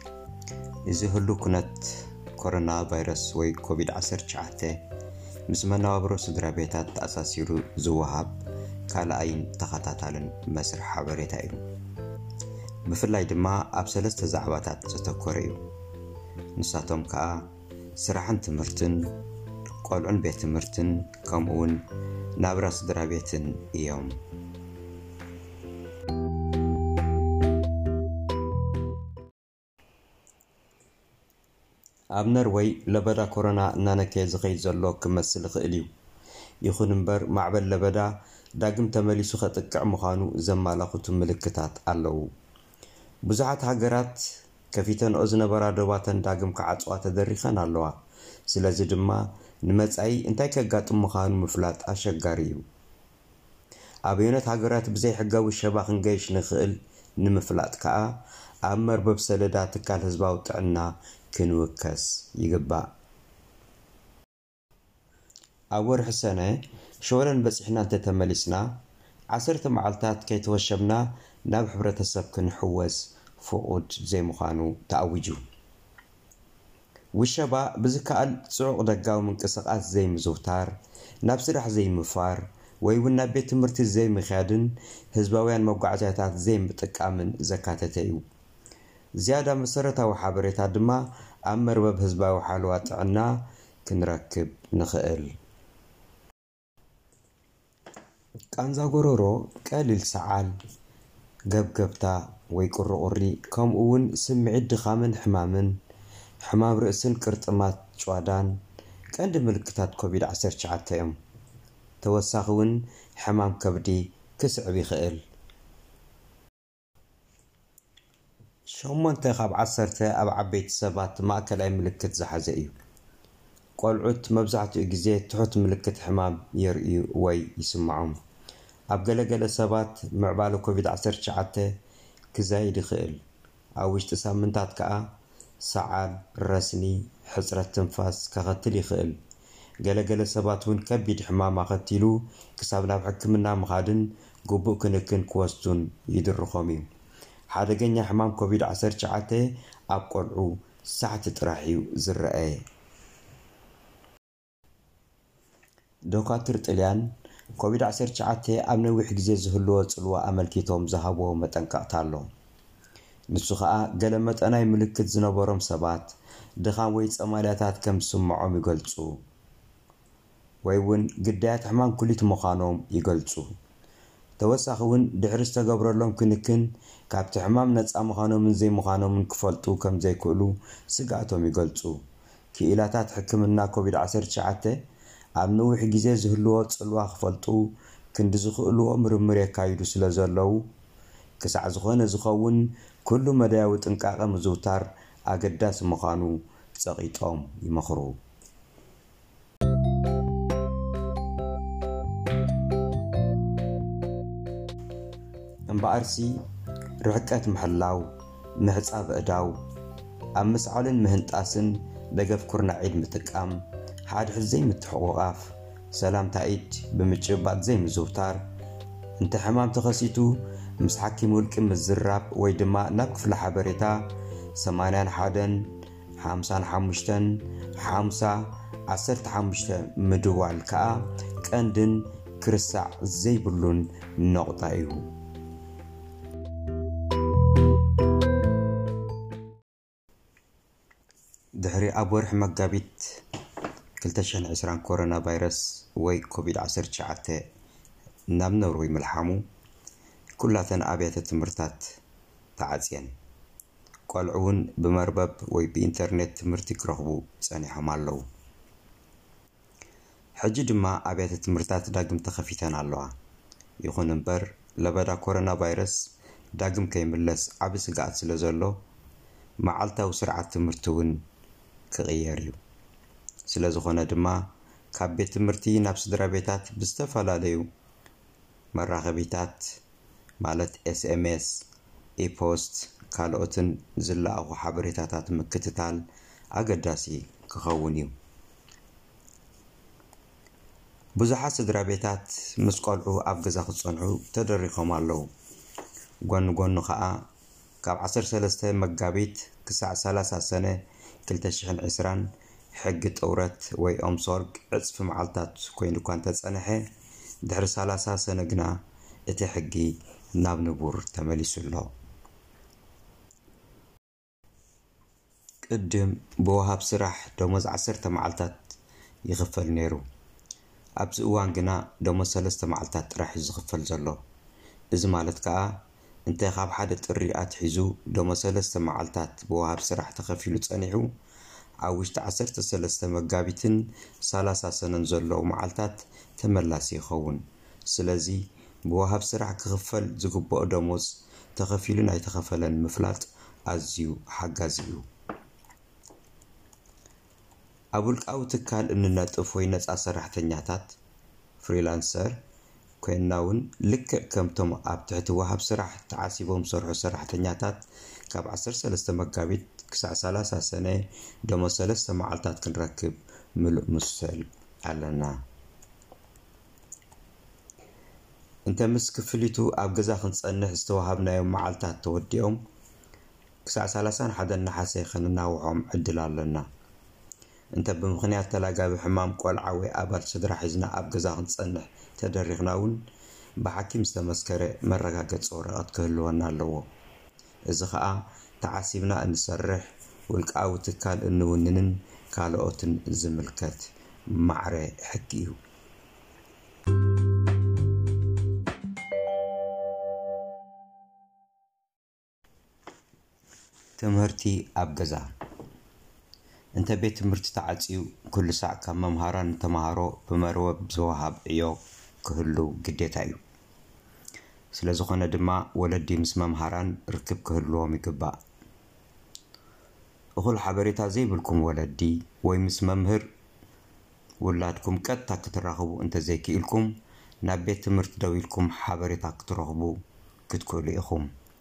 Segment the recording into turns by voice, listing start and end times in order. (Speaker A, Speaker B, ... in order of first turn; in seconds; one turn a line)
Speaker A: 0.9-4.8
Speaker A: 5.5-8.4
Speaker A: 8.9-11.6
Speaker A: 12.9-15.6
Speaker A: 16.6-19.1
Speaker A: 19.8-21.8
Speaker A: 22.4-24.2
Speaker A: 32.1-35.9
Speaker A: 36.6-42.3
Speaker A: 43.3-44.2
Speaker A: 44.7-52.6
Speaker A: 54.1-62.9
Speaker A: 65.8-68.8
Speaker A: 69.3-75.4
Speaker A: 77.2-88.2
Speaker A: 89.2-95.4
Speaker A: 98.5-100.5
Speaker A: 101.5-105.8
Speaker A: 106.5-108.6
Speaker A: 109.1-111.2
Speaker A: 112.0-115.2
Speaker A: 118.7-122.8
Speaker A: 123.8-128.2
Speaker A: 128.9-131.7
Speaker A: 132.3-133.2
Speaker A: 133.8-139.2
Speaker A: 139.8-146.9
Speaker A: 147.5-152.6
Speaker A: 156.1-162.3
Speaker A: 163.3-169.2
Speaker A: 170.7-173.5
Speaker A: 174.4-182.0
Speaker A: 182.6-184.8
Speaker A: 185.4-190.7
Speaker A: 191.4-198.2
Speaker A: 205.7-206.4
Speaker A: 207.0-209.6
Speaker A: 210.3-218.4
Speaker A: 219.2-235.1
Speaker A: 241.6-243.2
Speaker A: 244.0-247.4
Speaker A: 248.3-249.4
Speaker A: 250.4-252.0
Speaker A: 252.6-253.2
Speaker A: 254.1-258.2
Speaker A: 260.4-263.1
Speaker A: 263.8-268.8
Speaker A: 269.6-271.2
Speaker A: 271.9-272.6
Speaker A: 273.5-277.6
Speaker A: 278.7-279.8
Speaker A: 280.4-281.6
Speaker A: 282.2-286.0
Speaker A: 286.5-288.1
Speaker A: 291.2-295.3
Speaker A: 296.2-297.3
Speaker A: 297.8-306.9
Speaker A: 307.4-311.9
Speaker A: 315.7-318.6
Speaker A: 319.3-320.0
Speaker A: 321.0-324.2
Speaker A: 324.9-331.1
Speaker A: 331.8-345.1
Speaker A: 347.9-351.0
Speaker A: 351.6-352.4
Speaker A: 353.0-365.4
Speaker A: 368.7-372.6
Speaker A: 373.6-376.7
Speaker A: 377.7-383.0
Speaker A: 383.6-386.9
Speaker A: 387.7-395.6
Speaker A: 404.0-405.3
Speaker A: 406.8-413.4
Speaker A: 414.7-418.4
Speaker A: 420.4-423.3
Speaker A: 424.4-431.3